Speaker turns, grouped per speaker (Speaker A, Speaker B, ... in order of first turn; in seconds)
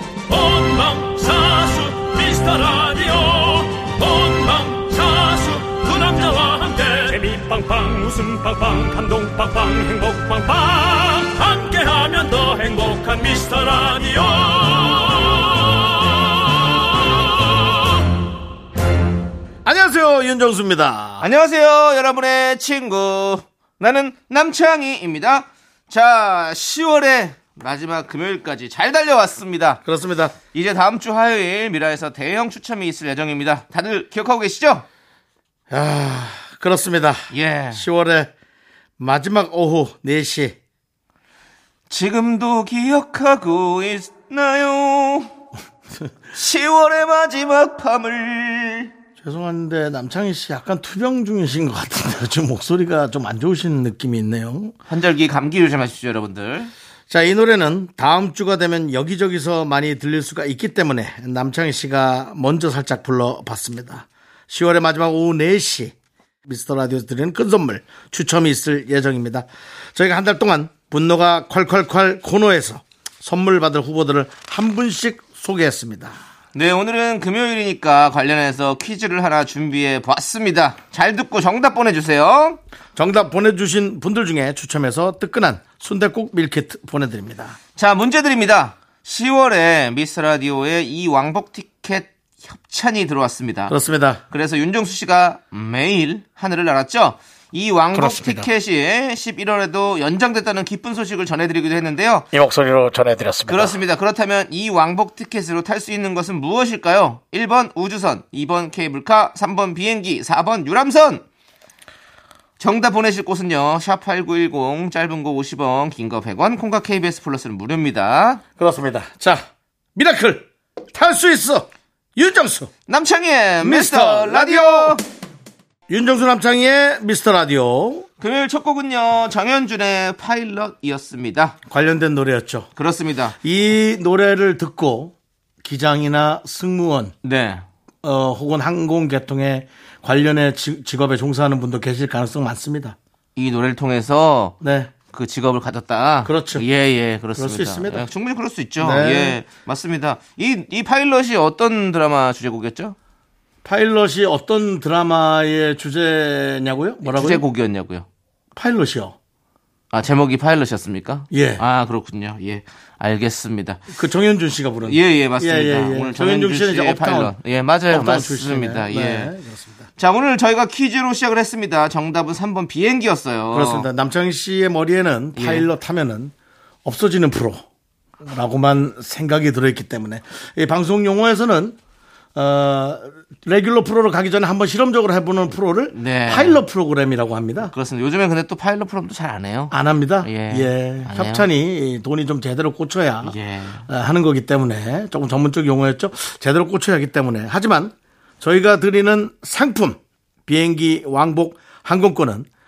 Speaker A: 0.3-16.8
Speaker B: 19.6-21.3, 29.9-30.4, 35.7-38.3, 39.0-40.6, 49.2-54.8, 57.1-65.9, 66.5-76.2, 83.0-87.6, 93.7-94.2, 97.9-98.5, 102.3-103.8, 118.6-119.4, 120.0-122.7, 123.6-125.0, 125.9-128.1, 131.7-132.7, 133.4-137.1, 138.0-143.0, 144.6-144.9, 146.2-146.7, 147.4-148.1, 148.8-149.4, 153.6-157.4, 158.6-159.2, 161.3-161.6, 163.9-167.3, 167.9-169.9, 173.5-176.3, 176.8-177.6, 178.2-181.8, 182.3-187.7, 189.7-193.4, 193.9-202.5
Speaker C: 21.2-29.8, 30.5-34.9, 37.3-37.9, 41.9-45.3, 46.3-48.9, 54.9-56.7, 76.5-82.6, 87.8-93.7, 94.3-102.3, 103.5-111.2, 112.6-118.4, 122.9-125.0, 128.2-131.6, 132.8-133.3, 137.2-137.6, 143.4-144.6, 145.1-153.0, 157.0-158.1, 159.9-163.8, 164.8-169.3, 170.0-173.9, 175.4-175.7, 185.9-186.6, 187.7-191.5, 193.2-193.9